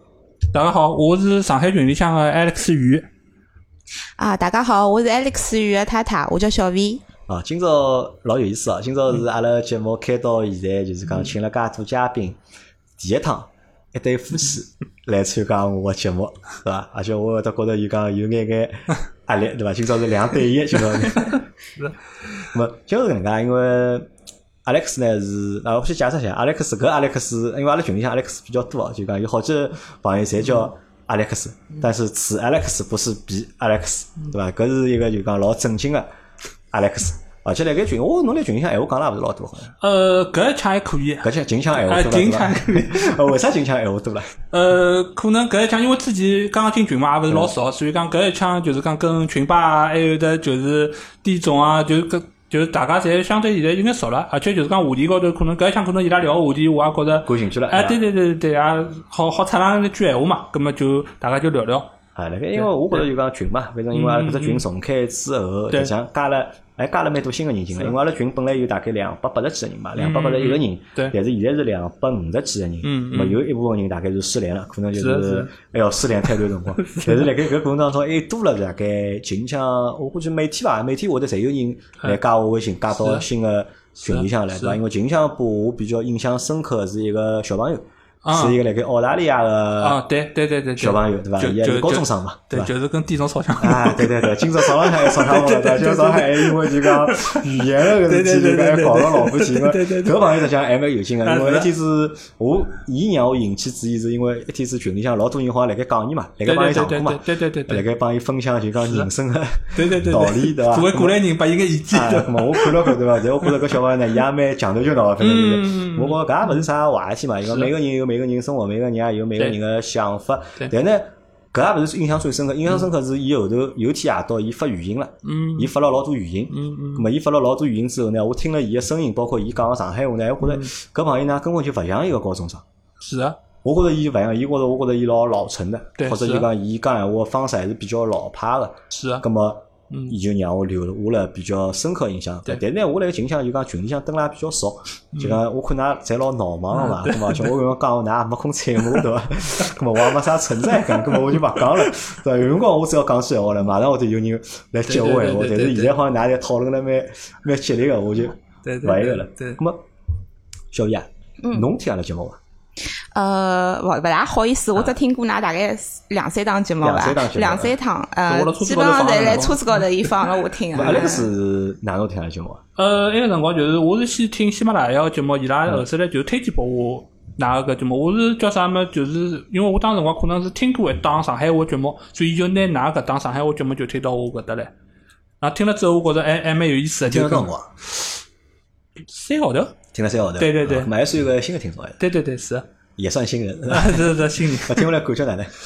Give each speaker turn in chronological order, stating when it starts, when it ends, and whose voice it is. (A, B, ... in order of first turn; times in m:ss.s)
0:00.5-0:03.1 A
0:04.2-0:07.0 B
0:07.3-0:12.4 C
0:13.0-0:21.4 C
0:22.5-0:24.1 C
0:24.6-0:36.1 C
0:36.7-0:39.7 C
0:39.8-0:43.3 A
0:41.2-0:44.3 C
0:44.5-1:01.9 A
0:57.3-0:58.0 C
1:02.2-1:30.0 C
1:03.9-1:04.6 A
1:10.0-1:11.1 A
1:12.8-1:13.4 A
1:15.0-1:15.5 A
1:16.8-1:17.3 A
1:23.0-1:23.2 A
1:24.1-1:24.8 A
1:28.2-1:28.6 A
1:29.8-1:40.2 A
1:30.8-1:32.7 C
1:33.6-1:51.2 C
1:41.2-1:41.7 A
1:46.4-1:47.8 A
1:48.8-1:49.1 A
1:49.7-1:53.5 A
1:51.9-2:12.6 C
1:55.2-1:56.6 A
1:57.5-1:57.7 A
2:05.2-2:05.7 A
2:06.5-2:07.1 A
2:10.4-2:10.7 A
2:13.0-2:13.4 A
2:13.6-2:39.8 C
2:16.0-2:16.5 A
2:18.9-2:19.2 A
2:26.7-2:27.5 A
2:30.8-2:31.9 A
2:34.9-2:35.9 A
2:38.6-2:39.6 A
2:40.7-2:42.4 C
2:41.4-2:41.7 B
2:43.1-2:51.3 B
2:46.8-2:47.8 C
2:48.3-2:50.2 A
2:50.7-2:52.6 C
2:52.8-3:04.7 A
3:05.4-3:08.1 A
3:07.1-3:07.7 C
3:09.1-3:09.8 A
3:09.9-3:12.0 C
3:10.4-3:10.9 A
3:12.0-3:12.7 A
3:13.0-3:15.5 C
3:13.7-3:14.9 A